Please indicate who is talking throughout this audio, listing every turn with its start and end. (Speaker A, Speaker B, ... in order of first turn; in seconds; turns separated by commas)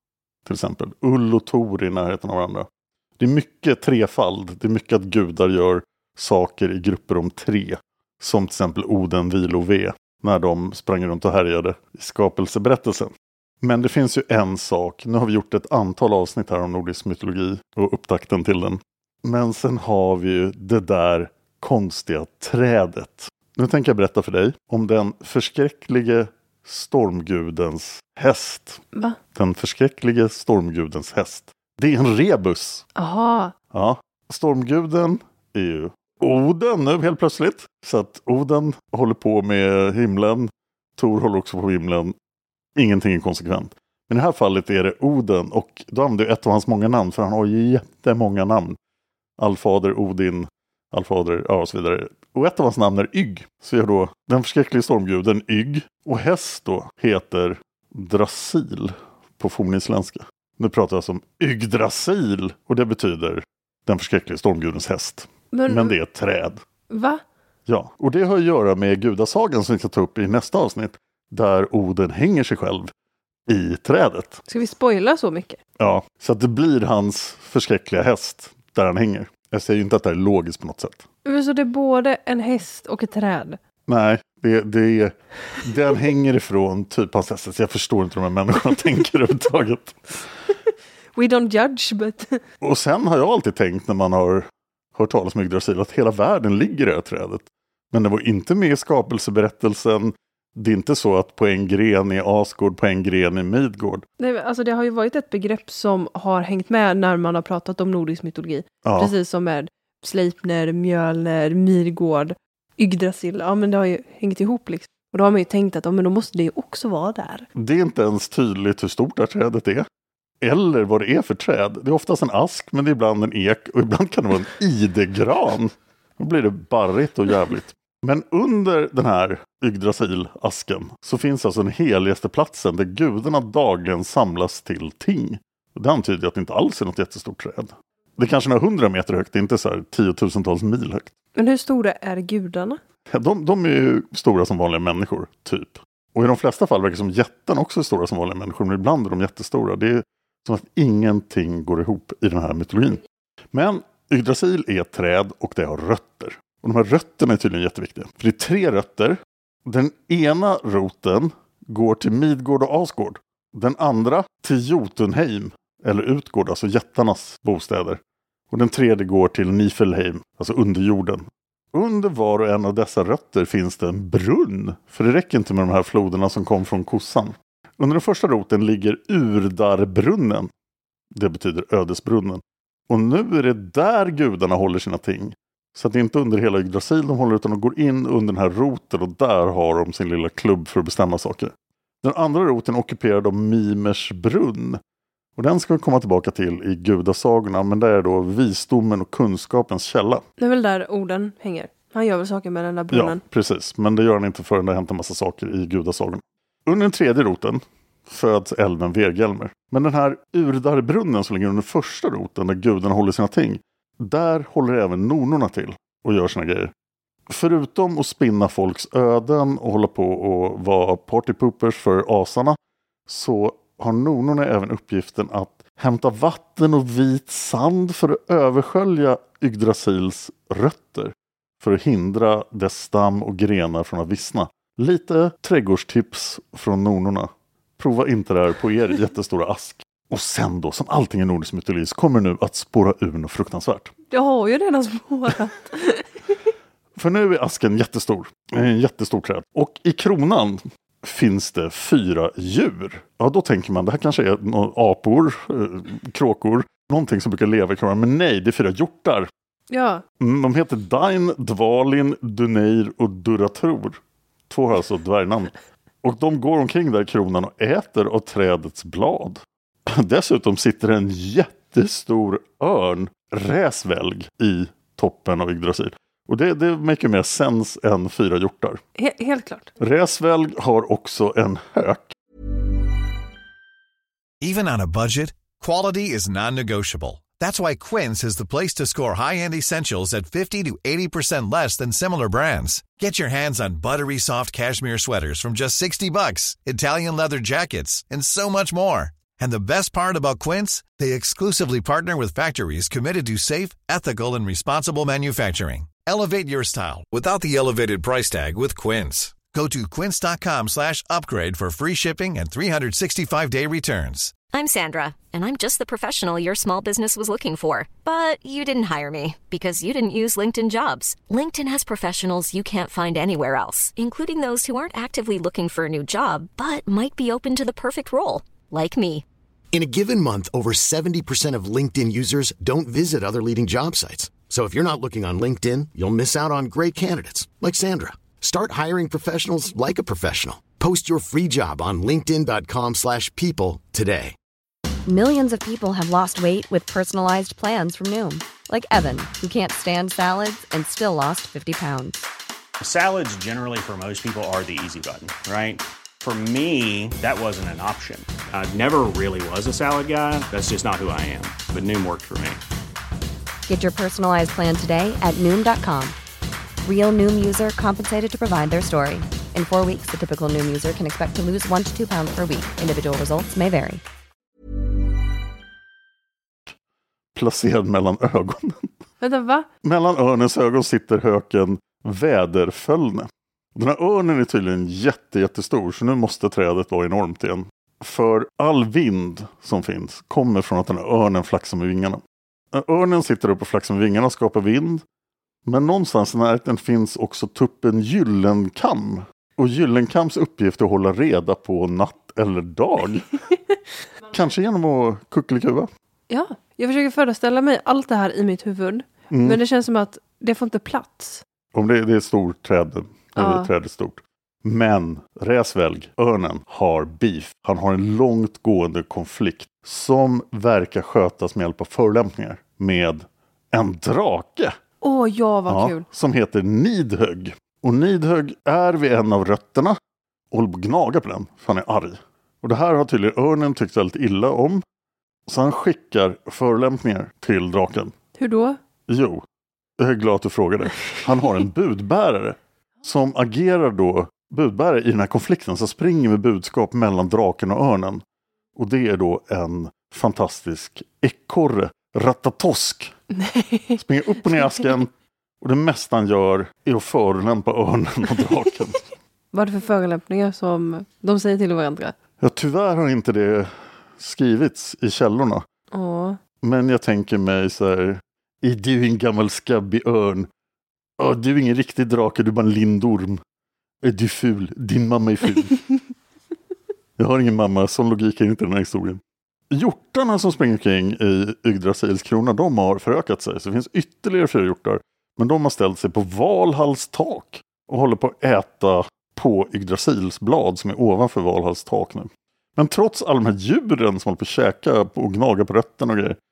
Speaker A: 0.5-2.7, Speaker A: 3.2-28.8, Speaker A: 29.3-32.9, Speaker B: 33.0-33.5, Speaker A: 33.7-42.1, Speaker A: 42.8-48.8, Speaker A: 49.4-66.6, Speaker B: 65.5-66.0, Speaker B: 66.9-67.2, Speaker A: 67.7-72.9, Speaker A: 73.5-74.4, Speaker B: 74.5-75.6, Speaker A: 75.8-81.1, Speaker B: 81.2-83.6, Speaker A: 83.9-90.0, Speaker B: 91.2-92.4, Speaker A: 92.6-104.1, Speaker B: 104.2-117.5, Speaker A: 108.8-109.1, Speaker A: 117.5-119.9, Speaker A: 120.4-141.1, Speaker B: 141.3-142.8, Speaker A: 143.1-168.0, Speaker A: 168.5-180.5, Speaker A: 181.1-194.8, Speaker A: 195.4-200.2, Speaker B: 200.4-203.2, Speaker A: 202.9-216.7, Speaker A: 217.3-243.9, Speaker B: 244.1-246.0, Speaker A: 247.0-259.3, Speaker B: 259.7-260.0, Speaker A: 260.2-278.8, Speaker B: 279.0-279.7, Speaker A: 279.8-282.1, Speaker C: 284.4-314.3, Speaker D: 314.5-329.2, Speaker E: 329.7-344.4, Speaker F: 345.1-352.3, Speaker G: 352.8-362.6, Speaker F: 363.7-366.2, Speaker F: 366.9-374.0, Speaker A: 377.3-378.9, Speaker B: 379.2-379.7, Speaker A: 379.8-392.2, Speaker A: 392.7-395.0, Speaker A: 395.7-403.3, Speaker A: 404.3-405.9, Speaker B: 406.3-411.4, Speaker A: 409.3-409.6, Speaker A: 411.7-424.8, Speaker B: 413.4-413.7, Speaker B: 425.0-426.1, Speaker A: 425.7-430.0, Speaker A: 430.5-434.8, Speaker A: 435.5-438.2, Speaker B: 438.4-438.8, Speaker A: 439.1-439.4, Speaker A: 440.0-448.2, Speaker A: 448.8-453.2, Speaker B: 453.3-454.8, Speaker A: 454.0-459.0, Speaker B: 459.5-462.1, Speaker A: 462.4-465.6, Speaker B: 465.9-466.4, Speaker A: 466.6-470.5, Speaker A: 471.2-473.4, Speaker A: 474.0-475.8, Speaker A: 477.2-496.4